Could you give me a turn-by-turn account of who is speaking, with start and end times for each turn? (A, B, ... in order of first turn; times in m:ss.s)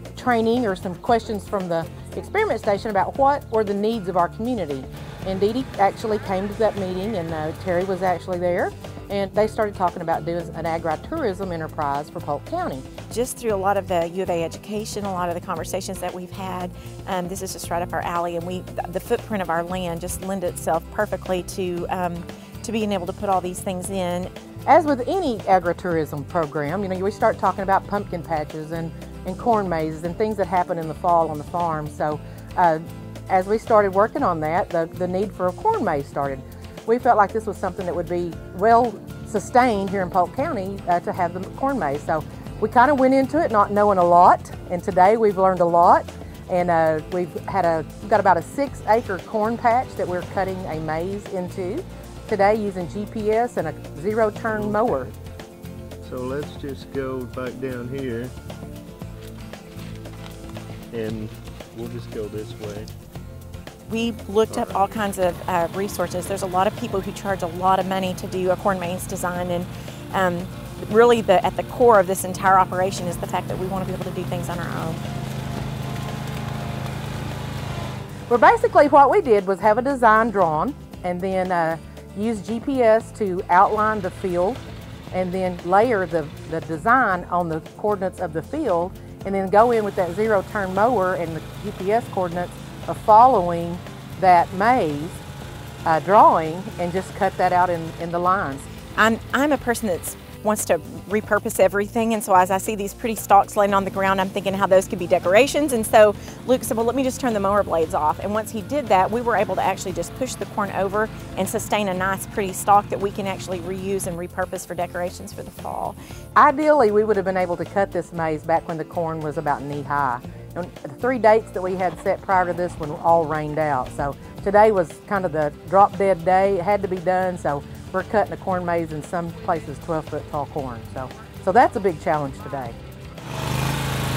0:00.2-0:12.9 A
0:13.1-0:24.3 B
0:24.7-0:55.1 A
0:54.5-0:55.1 C
0:56.0-0:58.3 C
1:00.9-1:02.9 C
1:03.9-1:15.0 B
1:04.5-1:05.2 C
1:18.3-1:24.6 A
1:25.1-1:35.2 A
1:35.9-1:38.7 A
1:39.0-1:56.0 B
1:56.4-2:12.8 A